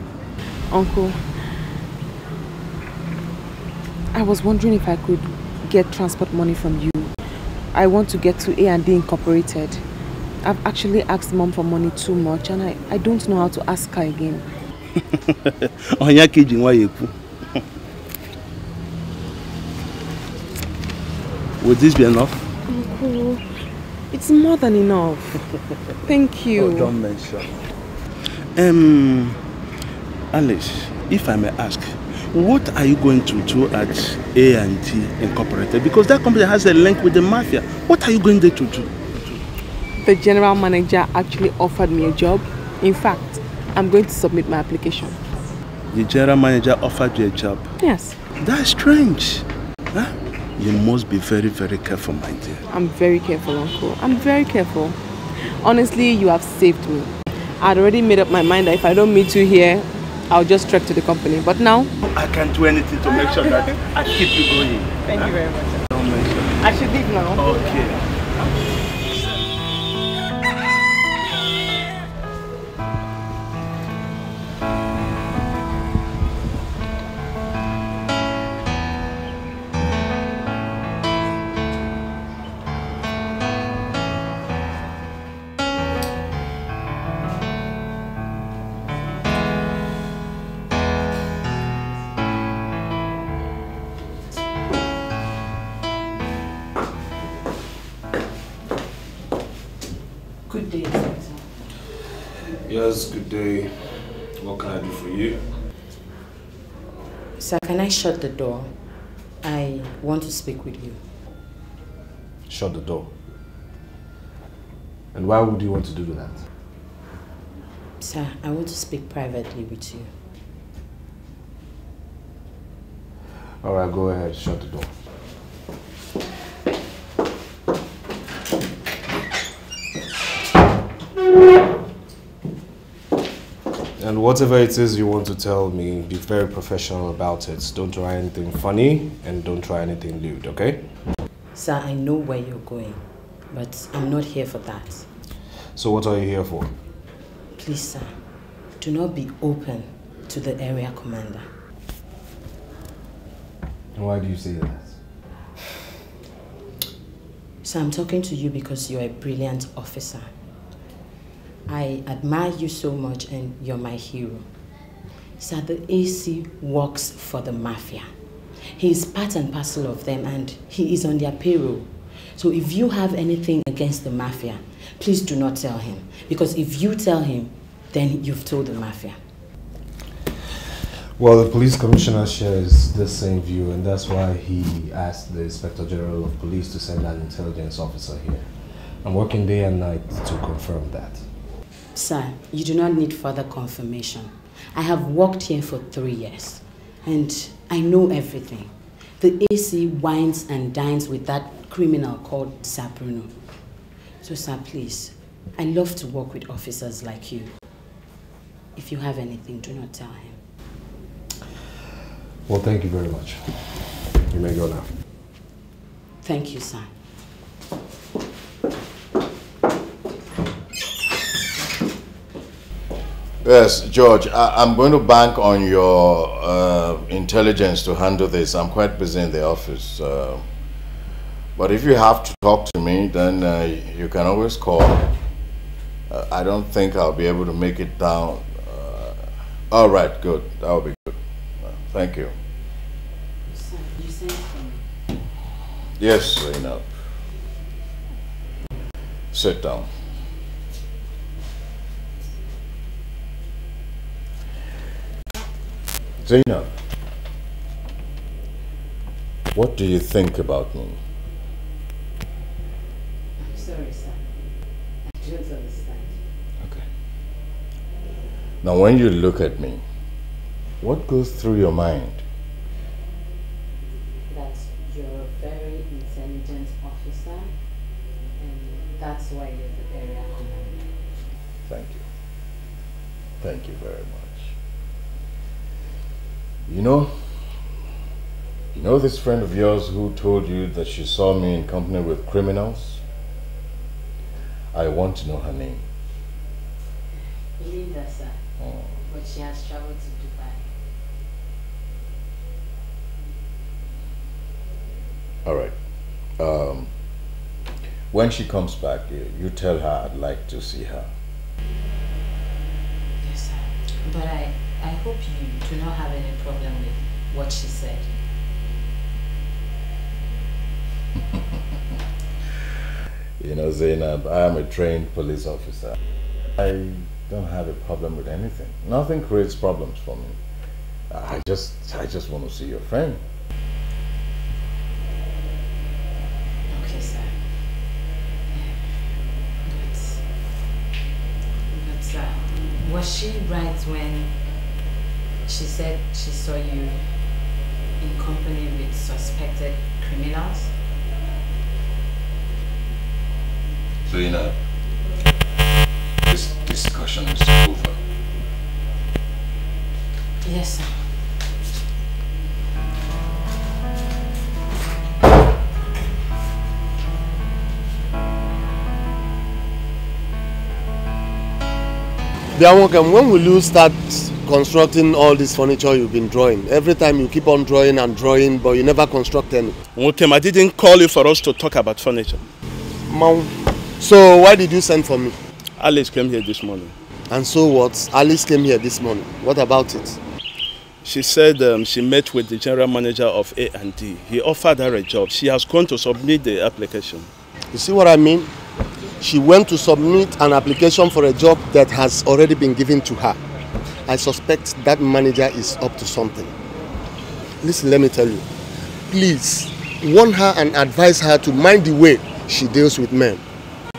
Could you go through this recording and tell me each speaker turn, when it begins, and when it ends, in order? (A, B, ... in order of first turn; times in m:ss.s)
0:00.7-0:01.2 A
0:04.1-0:07.1 A
0:07.7-0:09.8 A
0:10.4-0:14.4 A
0:15.1-0:17.1 B
0:21.6-0:22.5 B
0:22.7-0:23.4 A
0:24.1-0:25.4 A
0:26.0-0:26.9 A
0:26.6-0:27.5 B
0:28.6-0:29.4 B
0:30.3-0:39.4 B
0:40.0-0:45.2 A
0:45.9-0:47.7 B
0:47.8-0:48.2 A
0:48.4-0:52.6 B
0:52.7-1:01.9 A
1:02.0-1:05.3 B
1:05.1-1:05.8 A
1:05.9-1:06.6 B
1:06.6-1:07.7 A
1:07.4-1:08.0 B
1:40.5-1:41.5 C
1:42.7-1:43.7 D
1:44.4-1:45.4 D
1:47.4-1:48.7 C
1:49.4-1:51.0 C
1:52.5-1:53.1 D
1:55.1-1:56.4 D
1:58.0-2:00.1 C
2:03.6-2:04.9 D
2:14.0-2:20.8 D
2:21.6-2:25.1 C
2:25.8-2:26.7 D
2:27.6-2:28.2 C
2:28.8-2:31.5 C
2:33.9-2:34.9 D
2:37.6-2:40.3 C
2:41.7-2:44.5 C
2:45.4-2:48.1 C
2:48.7-2:59.2 C
3:01.2-3:08.5 D
3:09.0-3:11.2 D
3:12.0-3:23.3 C
3:24.2-3:27.5 C
3:28.8-3:30.4 C
3:32.5-3:34.9 D
3:36.2-3:36.9 C
3:43.4-3:50.5 E
3:51.6-3:55.1 E
3:56.1-4:02.3 E
4:03.5-4:04.8 C
4:06.0-4:06.8 E
4:09.3-4:09.9 E
4:16.2-4:16.7 E
4:19.5-4:21.0 E
4:23.4-4:24.5 C
4:25.1-4:26.2 C
4:28.6-4:29.8 E
4:30.8-4:32.2 E
4:34.3-4:37.5 C
4:38.4-4:40.9 C
4:41.7-4:42.0 E
4:43.4-4:44.5 E
4:46.7-4:47.1 E
4:48.8-4:53.0 E
4:54.7-4:55.8 E
4:57.2-4:58.4 C
4:58.6-4:58.9 E
4:59.0-5:00.7 C
5:05.4-5:05.8 E
5:06.4-5:06.9 E
5:08.1-5:11.1 E
5:13.2-5:18.1 C
5:23.4-5:25.9 E
5:26.6-5:30.4 E
5:31.1-5:33.2 E
5:36.7-5:37.4 C
5:38.5-5:38.8 C
5:39.7-5:40.2 C
5:41.7-5:44.3 C
5:45.4-5:47.0 C
5:48.0-5:50.7 C
5:54.1-5:54.5 E
5:56.2-5:58.0 E
6:00.4-6:01.0 C
6:12.6-6:19.8 F
6:20.0-6:22.5 B
6:23.1-6:25.4 F
6:25.8-6:27.0 B
6:27.3-6:30.2 F
6:31.0-6:37.3 B
6:37.7-6:38.5 F
6:39.2-6:43.4 F
6:44.1-6:46.5 F
6:47.6-6:48.5 F
6:49.1-6:53.4 F